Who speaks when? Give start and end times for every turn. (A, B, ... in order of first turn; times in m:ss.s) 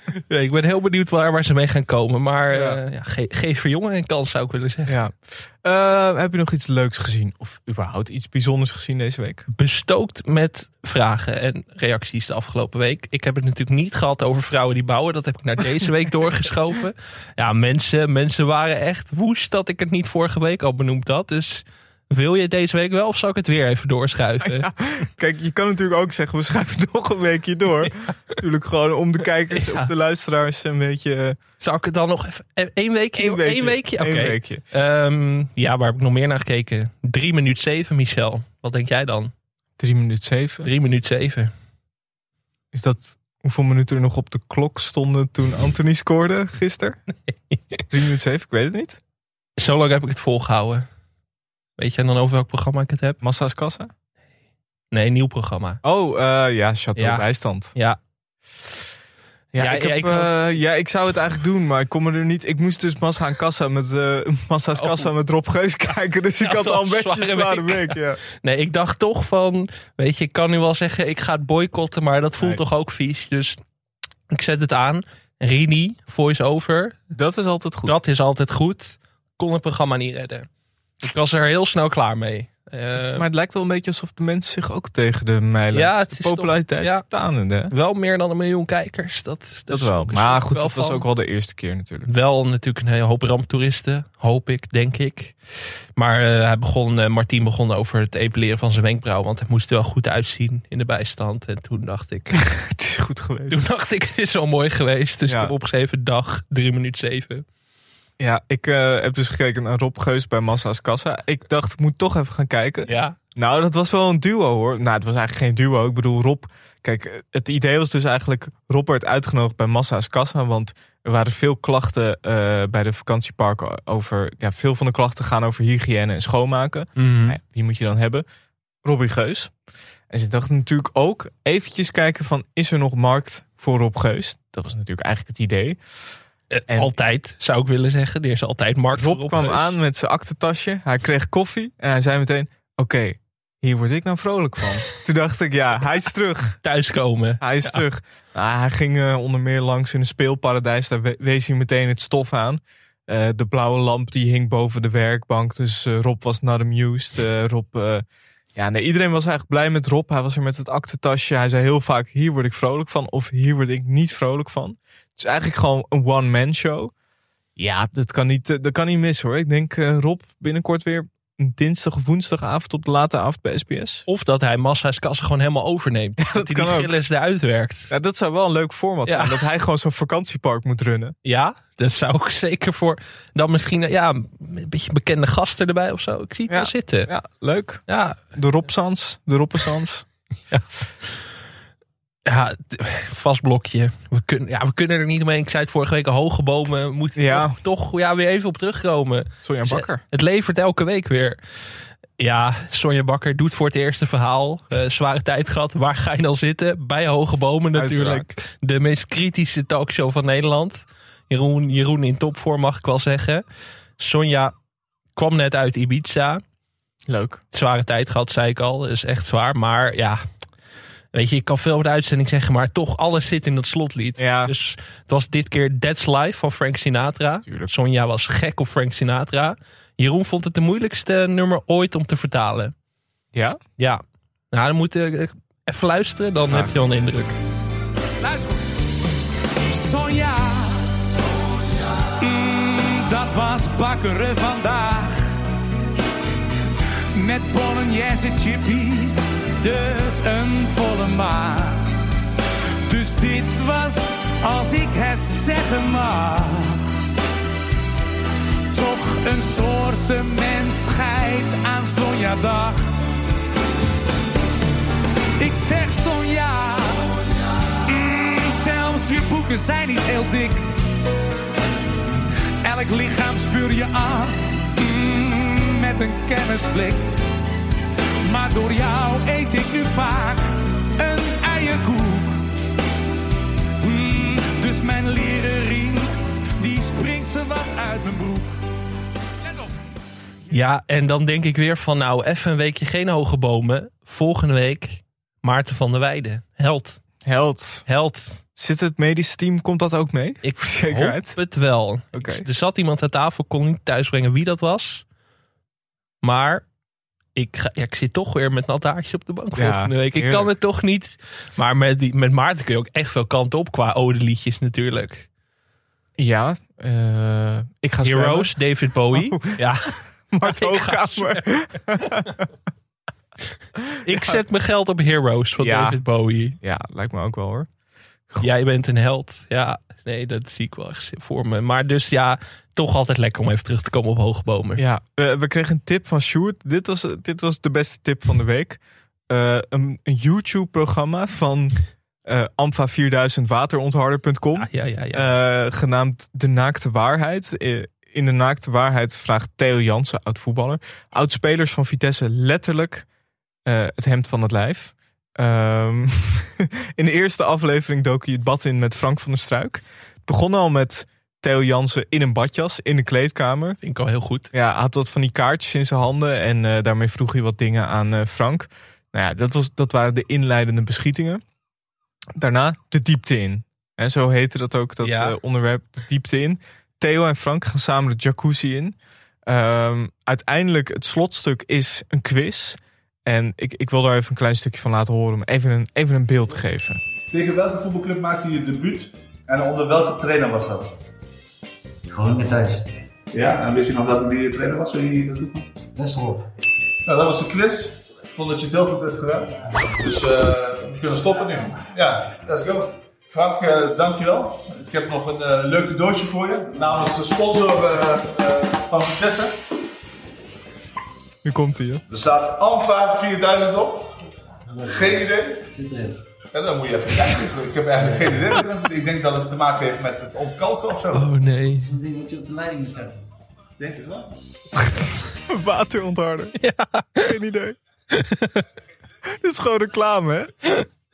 0:00.3-0:05.0 A
0:02.5-0:02.8 B
0:04.9-0:09.5 B
0:09.5-0:24.7 A
0:24.4-0:31.4 B
0:29.5-0:29.9 A
0:31.6-0:39.3 A
0:33.2-0:34.6 B
0:39.8-0:40.7 B
0:40.6-0:41.5 A
0:42.7-0:47.0 B
0:47.5-0:47.8 A
0:47.9-0:49.0 B
0:49.6-0:50.9 A
0:51.8-0:53.2 A
0:53.2-0:53.9 B
0:54.9-0:55.8 A
0:55.8-0:57.7 B
0:57.0-0:58.0 A
0:59.5-1:08.2 B
0:59.6-1:00.5 A
1:04.7-1:05.1 A
1:06.4-1:13.6 A
1:14.3-1:17.0 A
1:17.1-1:18.0 B
1:17.8-1:20.5 A
1:21.0-1:23.2 A
1:23.0-1:27.7 B
1:25.7-1:27.0 A
1:27.7-1:31.0 A
1:29.7-1:32.1 B
1:32.0-1:35.3 A
1:36.0-1:42.4 A
1:42.3-1:43.6 B
1:43.5-1:47.4 A
1:45.3-1:45.5 B
1:48.2-2:08.2 B
1:52.8-1:53.2 A
2:07.0-2:07.4 A
2:08.8-2:09.5 B
2:10.1-2:15.8 B
2:16.5-2:19.7 A
2:18.9-2:26.6 B
2:26.6-2:27.8 A
2:27.4-2:38.0 B
2:38.6-2:46.9 B
2:47.6-2:54.0 B
2:54.1-2:57.9 A
2:56.2-2:56.9 B
2:57.9-3:01.1 B
2:59.1-2:59.4 A
3:01.2-3:07.1 A
3:06.5-3:07.8 B
3:07.9-3:08.3 A
3:08.3-3:10.1 B
3:12.2-3:21.4 A
3:17.2-3:17.6 B
3:19.4-3:20.0 B
3:22.2-3:33.4 A
3:27.7-3:28.3 B
3:34.0-3:34.5 A
3:35.2-3:36.4 A
3:37.1-3:37.4 B
3:37.5-3:40.2 A
3:41.1-3:52.7 A
3:44.2-3:44.5 B
3:47.4-3:47.7 B
3:53.3-3:53.6 B
3:53.8-3:57.4 A
3:58.2-3:58.6 C
3:59.7-4:00.9 C
4:02.0-4:05.3 C
4:07.1-4:11.8 C
4:12.8-4:16.9 C
4:18.7-4:22.9 C
4:25.4-4:27.2 C
4:27.7-4:30.7 C
4:32.6-4:37.2 C
4:38.2-4:42.4 C
4:43.8-4:48.5 C
4:50.5-4:57.0 A
4:57.2-4:57.8 B
4:57.9-4:58.4 A
4:58.6-5:01.4 B
5:00.4-5:05.0 A
5:02.1-5:02.4 B
5:06.2-5:06.6 A
5:07.4-5:15.3 A
5:09.5-5:10.5 B
5:16.2-5:18.6 B
5:18.0-5:21.5 A
5:19.1-5:19.6 B
5:20.3-5:22.5 B
5:23.9-5:24.4 B
5:24.0-5:26.6 A
5:25.6-5:26.0 B
5:26.6-5:27.7 B
5:28.4-5:34.8 A
5:34.8-5:53.0 B
5:44.6-5:45.3 A
5:53.6-6:03.8 B
6:03.8-6:04.5 A
6:04.5-6:11.4 B
6:12.3-6:27.0 B
6:15.0-6:15.4 A
6:27.3-6:31.0 D
6:32.1-6:32.9 E
6:33.3-6:35.7 D
6:36.0-6:36.4 E
6:37.0-6:49.6 D
6:51.4-6:52.0 B
6:52.1-6:54.2 D
6:54.7-6:56.2 E
6:54.9-6:55.7 D
6:56.5-7:01.3 D
6:58.0-6:58.4 E
7:01.1-7:01.9 A
7:01.8-7:03.2 E
7:03.8-7:04.4 D
7:05.5-7:06.6 B
7:06.6-7:07.3 A
7:07.2-7:07.8 B
7:08.1-7:08.6 A
7:09.3-7:10.5 B